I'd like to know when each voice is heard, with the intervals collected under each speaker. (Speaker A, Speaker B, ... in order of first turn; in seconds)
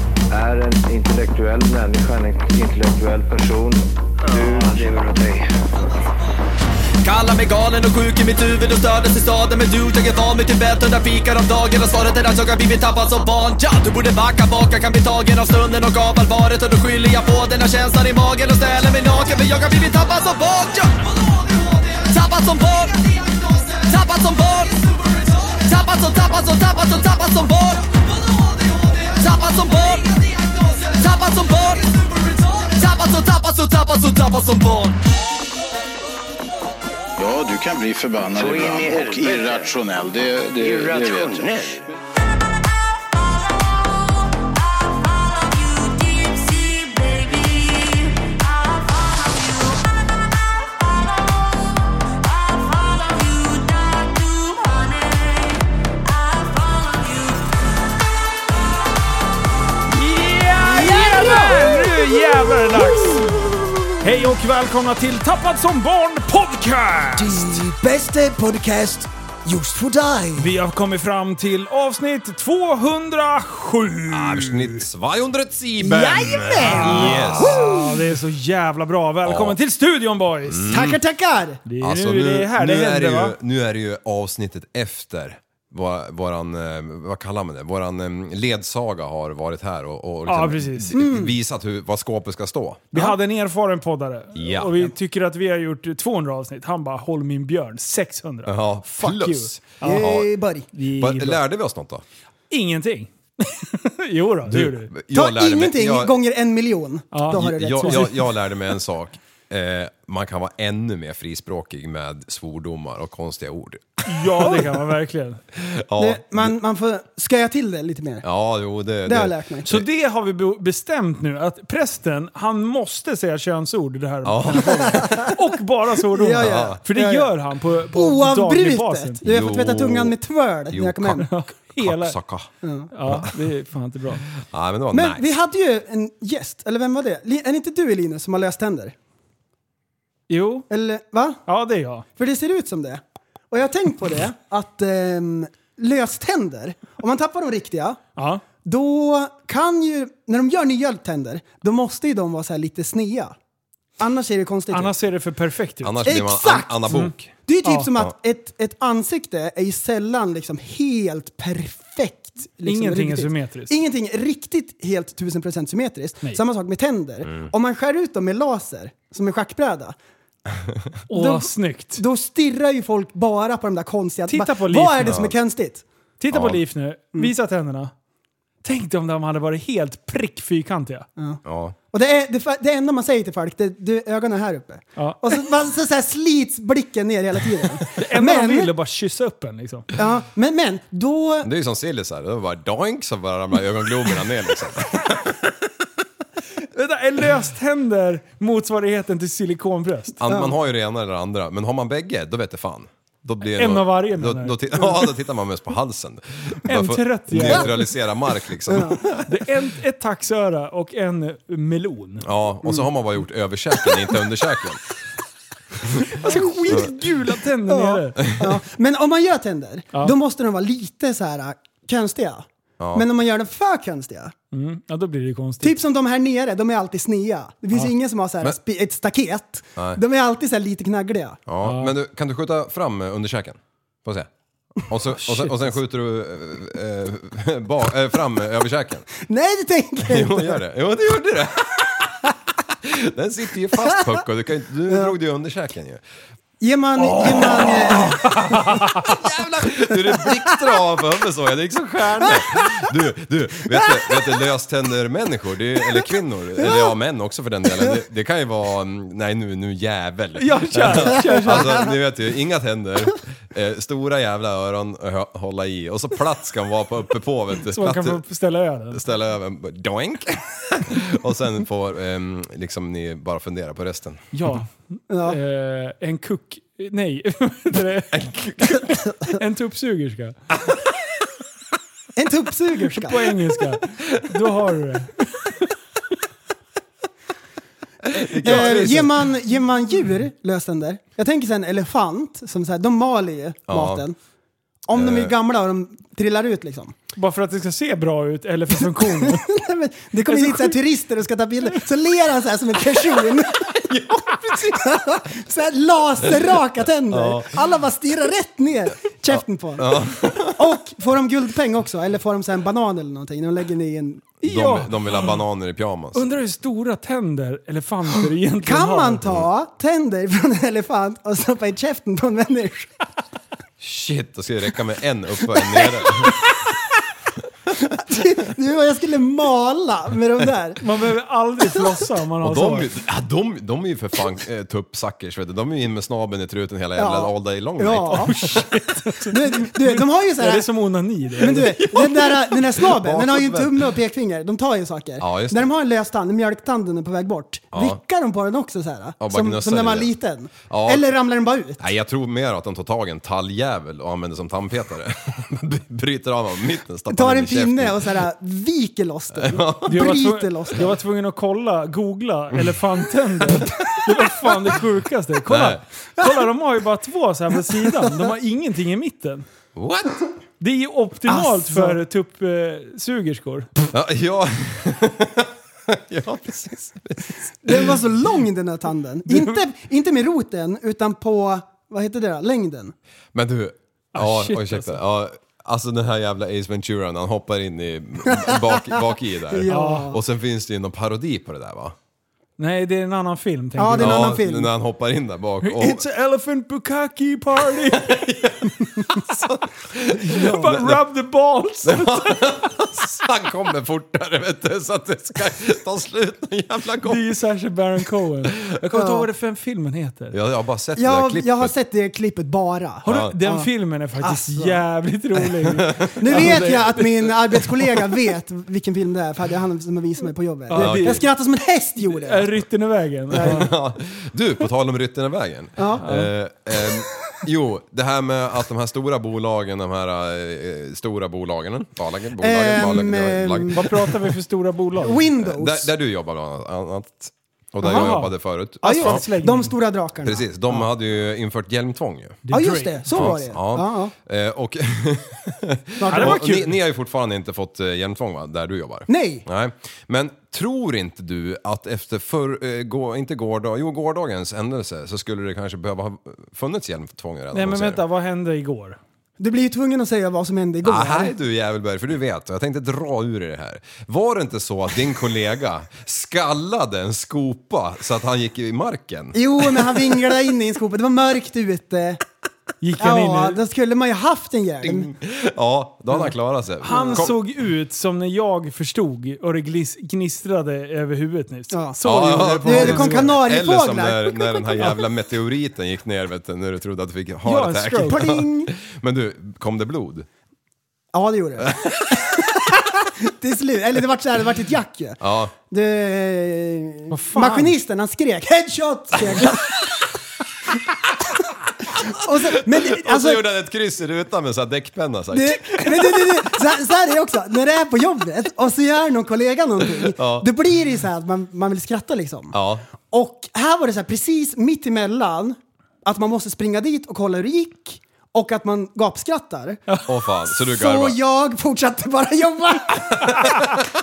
Speaker A: 0.3-5.5, 38.3-39.7, 40.6-41.8
Speaker B: 7.0-35.0
Speaker C: 37.2-41.5
Speaker D: 59.9-67.6, 70.4-74.8, 76.6-80.7, 81.7-83.3, 90.2-90.9, 92.9-100.1, 100.7-101.4, 102.5-104.9, 107.1-108.1, 114.0-115.4, 119.6-129.2, 131.2-132.2, 132.9-134.2, 140.3-140.7, 141.5-142.1, 148.2-148.4, 154.7-156.0, 156.9-157.9, 162.6-163.7, 171.1-172.0, 174.3-175.2, 176.2-177.9, 178.6-181.1, 187.9-189.9, 196.7-200.2, 203.4-204.6, 206.7-207.9, 209.3-212.3, 216.1-218.2, 224.5-225.8, 231.6-231.9, 235.2-235.6, 260.4-261.9, 267.7-269.0, 274.3-278.1, 279.4-280.4, 283.0-285.1, 288.5-288.8, 297.1-299.4, 300.3-300.8, 314.4-315.3, 316.1-319.2, 330.8-332.9, 338.1-341.7, 359.9-369.4, 370.6-373.7, 379.3-379.6, 384.1-385.0, 389.7-390.1, 392.6-394.4, 395.6-398.2, 400.1-402.6, 407.0-410.4, 413.0-417.2, 420.7-421.2, 422.0-423.7, 426.0-426.3, 433.7-435.2, 437.8-439.7, 442.5-443.4, 446.1-446.8, 457.5-459.0, 472.8-473.6, 476.8-483.4, 487.4-488.2, 497.1-497.7
Speaker E: 60.6-62.0, 62.7-63.9, 67.2-70.5, 75.8-78.0, 80.7-81.6, 90.9-91.3, 99.8-100.7, 105.1-108.2, 116.0-118.2, 119.0-119.7, 124.9-125.3, 126.1-127.3, 127.9-131.3, 132.6-132.9, 134.9-138.9, 140.7-141.4, 142.2-148.0, 148.6-153.3, 154.0-154.9, 156.0-169.9, 171.1-175.8, 181.2-188.7, 189.9-191.5, 200.3-200.5, 208.7-209.2, 212.6-212.9, 216.2-216.9, 217.7-224.3, 225.6-231.4, 239.2-240.6, 246.6-249.1, 250.2-250.4, 261.4-261.7, 275.1-275.4, 282.1-283.3, 288.2-294.1, 294.9-296.9, 299.0-310.0, 310.5-314.3, 318.6-322.9, 325.7-326.1, 327.8-330.8, 336.9-338.5, 339.3-340.7, 341.4-351.8, 357.1-360.9, 371.3-372.0, 377.6-382.9, 388.3-389.0, 389.5-390.2, 393.8-394.7, 408.9-409.3, 410.9-413.7, 414.2-414.8, 416.2-422.5, 423.3-423.7, 425.8-426.1, 432.4-434.1, 435.0-435.9, 437.8-438.1, 438.8-440.8, 442.5-444.1, 446.0-446.4, 449.1-449.4, 459.4-461.3, 469.3-472.2, 473.0-475.1, 476.9-477.3, 481.7-484.7, 488.1-488.7, 491.1-499.9, 501.9-503.4, 505.3-512.5, 513.1-519.8, 520.6-523.5
Speaker F: 74.1-77.7, 79.2-79.6, 80.5-81.0, 81.8-93.2, 94.3-94.9, 98.5-100.3, 100.9-102.0, 104.5-106.1, 107.3-114.0, 115.5-116.5, 118.2-119.8, 124.2-125.3, 126.3-126.8, 129.2-130.2, 130.7-132.5, 133.0-133.3, 134.4-135.2, 155.8-157.3, 175.0-175.3, 176.3-176.6, 181.4-181.8, 191.4-195.4, 200.2-209.2, 212.2-214.8, 222.8-223.1, 231.5-234.3, 234.8-239.1, 240.0-241.9, 242.8-246.0, 247.7-248.0, 249.0-268.2, 268.9-274.6, 278.1-279.0, 288.1-289.3, 293.7-294.0, 294.9-295.3, 303.9-304.7, 307.1-307.6, 309.3-310.7, 314.4-316.3, 323.8-326.4, 332.4-338.3, 341.6-343.9, 345.2-345.7, 347.7-348.0, 349.2-350.1, 350.7-351.1, 351.8-358.3, 359.4-360.2, 365.5-365.8, 369.8-370.2, 373.9-377.9, 383.3-391.9, 394.0-396.0, 398.0-401.0, 401.8-407.2, 410.3-411.7, 413.1-413.3, 415.6-416.7, 420.7-421.2, 423.3-433.9, 435.4-439.2, 440.2-442.4, 443.1-458.0, 460.8-470.1, 474.8-477.4, 482.0-490.3, 491.6-491.9, 495.2-495.5, 502.4-506.4, 509.9-510.5, 512.5-512.8, 520.0-521.2